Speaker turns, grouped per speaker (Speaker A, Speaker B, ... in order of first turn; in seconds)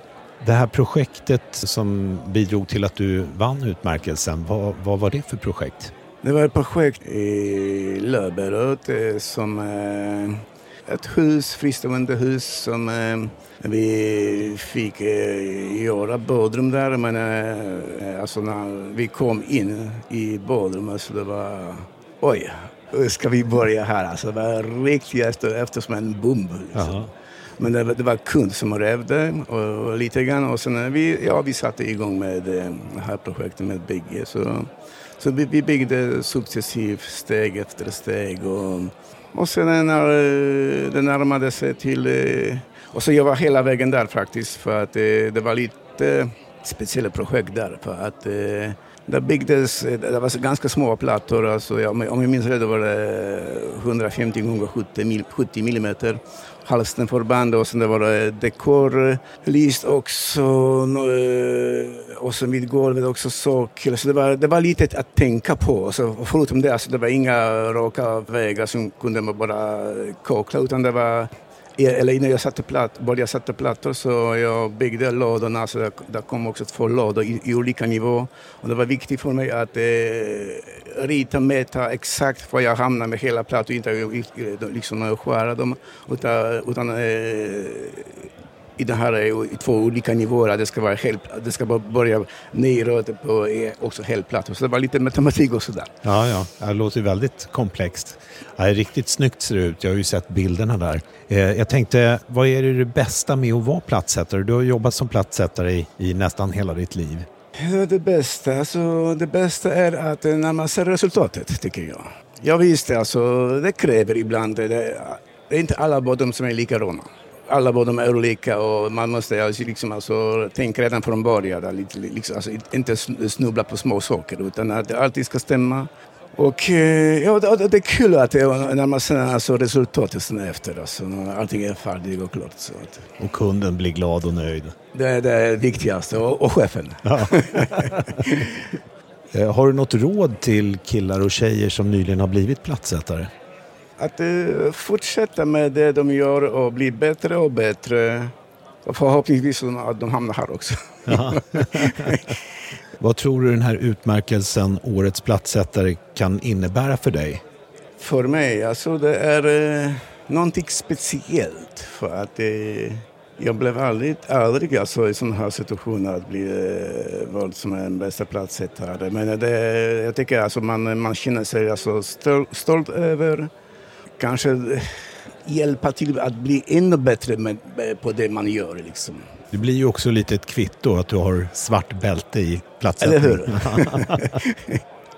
Speaker A: 0.4-5.9, 26.7-27.1, 96.0-107.3, 133.2-134.7, 137.0-138.4, 139.3-143.3, 151.1-152.2, 153.0-157.4, 179.5-184.3
Speaker B: 6.2-88.2, 88.8-95.9, 107.6-133.1, 134.9-138.5, 144.0-148.3, 148.8-152.2, 158.0-173.5, 174.2-179.2, 183.0-184.8